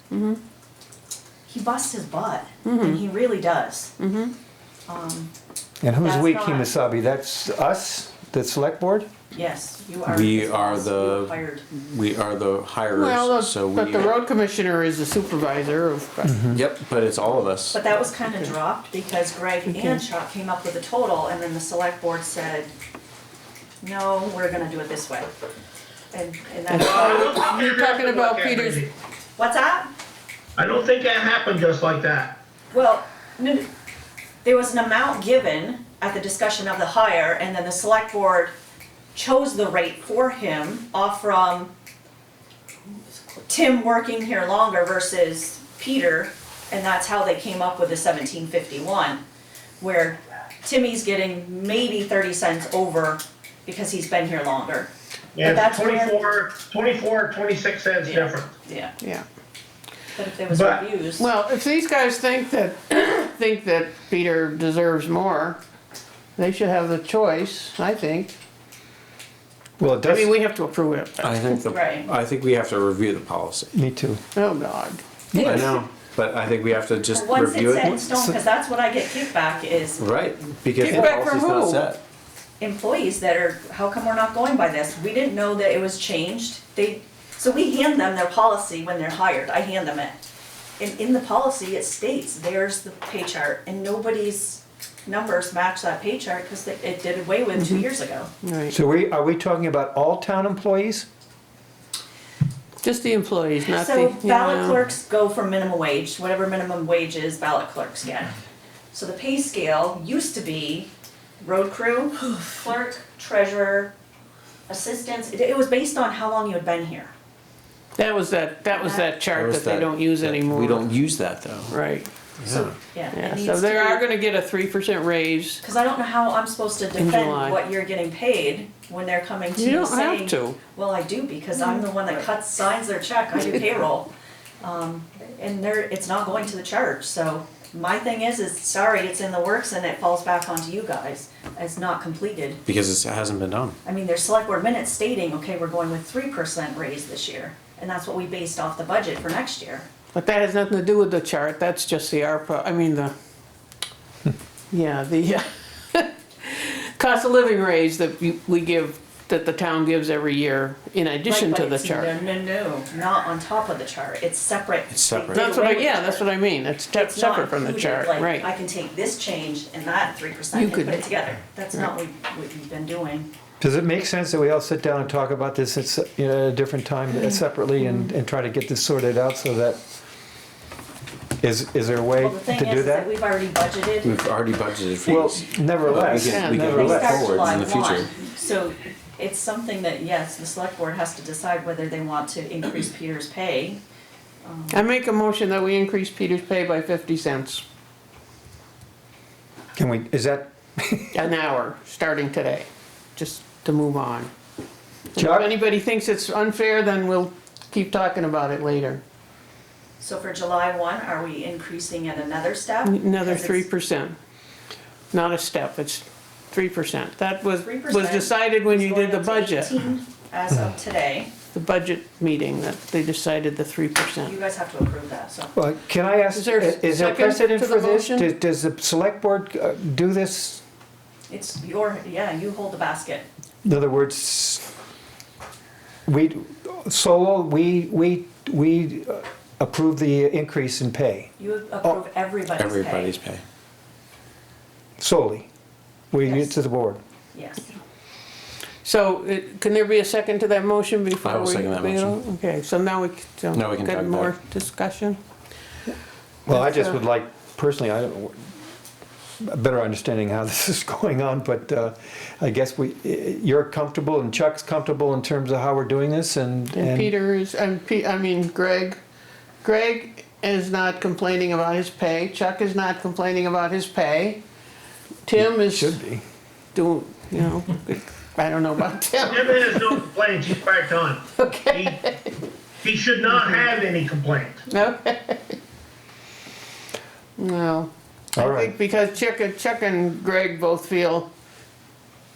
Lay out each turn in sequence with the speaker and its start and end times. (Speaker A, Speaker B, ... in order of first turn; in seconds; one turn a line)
Speaker A: 0.1-0.4
Speaker B: 1.5-3.9
Speaker A: 2.6-3.0
Speaker A: 4.0-4.3
Speaker B: 4.9-5.3
Speaker C: 5.8-9.1
Speaker B: 6.0-6.7
Speaker B: 9.3-11.7
Speaker D: 10.1-14.2
Speaker A: 12.9-16.5
Speaker C: 16.2-16.6
Speaker D: 16.5-17.8
Speaker B: 17.7-22.7
Speaker A: 19.7-20.0
Speaker B: 23.8-25.3
Speaker B: 26.1-27.4
Speaker E: 26.8-28.9
Speaker A: 26.9-28.9
Speaker B: 29.4-29.9
Speaker E: 30.6-32.4
Speaker B: 32.7-33.6
Speaker B: 34.4-38.5
Speaker B: 39.1-41.7
Speaker B: 43.5-49.2
Speaker B: 49.8-54.9
Speaker E: 55.4-58.5
Speaker B: 55.4-56.3
Speaker B: 58.0-58.9
Speaker B: 60.2-61.3
Speaker E: 60.5-60.9
Speaker A: 61.2-65.6
Speaker A: 66.4-68.3
Speaker C: 69.8-70.3
Speaker A: 70.0-71.7
Speaker D: 71.2-73.7
Speaker B: 71.7-72.1
Speaker C: 73.7-74.2
Speaker A: 74.3-75.0
Speaker C: 75.3-75.8
Speaker D: 75.3-78.3
Speaker B: 77.1-80.0
Speaker D: 80.0-82.0
Speaker A: 80.8-81.9
Speaker B: 82.6-90.2
Speaker B: 90.8-98.3
Speaker A: 97.5-97.8
Speaker A: 98.4-98.7
Speaker C: 98.7-101.1
Speaker A: 102.8-104.8
Speaker B: 103.7-108.3
Speaker B: 108.9-113.9
Speaker B: 114.7-117.1
Speaker A: 118.0-120.9
Speaker B: 118.7-119.1
Speaker D: 119.3-121.8
Speaker A: 121.7-122.1
Speaker D: 122.4-122.7
Speaker B: 122.5-124.0
Speaker A: 123.1-125.6
Speaker B: 125.6-142.6
Speaker A: 127.0-127.6
Speaker A: 129.6-130.6
Speaker D: 142.7-143.8
Speaker B: 143.8-149.9
Speaker A: 150.1-153.1
Speaker A: 154.7-162.1
Speaker B: 161.3-166.2
Speaker D: 164.9-165.5
Speaker A: 165.3-168.5
Speaker B: 166.9-173.3
Speaker A: 170.5-171.1
Speaker C: 173.6-179.8
Speaker C: 181.4-183.1
Speaker B: 182.2-184.1
Speaker D: 184.0-188.1
Speaker C: 185.1-187.3
Speaker A: 186.1-187.4
Speaker B: 186.5-193.8
Speaker B: 194.4-194.9
Speaker A: 194.7-197.6
Speaker C: 199.8-201.2
Speaker A: 201.1-204.3
Speaker A: 205.1-209.0
Speaker C: 205.2-205.5
Speaker B: 210.0-213.7
Speaker A: 212.8-214.2
Speaker A: 215.1-219.7
Speaker B: 217.6-221.3
Speaker A: 221.5-224.3
Speaker B: 224.2-225.5
Speaker C: 225.6-230.6
Speaker A: 226.3-228.3
Speaker B: 231.3-233.3
Speaker C: 233.6-234.7
Speaker C: 236.1-241.3
Speaker B: 241.4-243.1
Speaker D: 242.6-243.4
Speaker C: 245.0-245.5
Speaker C: 246.1-247.0
Speaker B: 246.2-246.5
Speaker B: 247.3-247.7
Speaker A: 248.8-255.2
Speaker D: 251.2-252.2
Speaker D: 253.5-254.3
Speaker C: 256.5-258.5
Speaker C: 259.4-267.1
Speaker A: 266.7-269.0
Speaker A: 269.6-274.4
Speaker A: 275.3-276.0
Speaker C: 275.4-276.2
Speaker A: 276.8-280.0
Speaker E: 279.2-282.0
Speaker A: 281.4-282.3
Speaker E: 282.8-284.6
Speaker A: 283.3-283.7
Speaker A: 284.7-285.6
Speaker A: 287.4-291.3
Speaker C: 288.4-288.7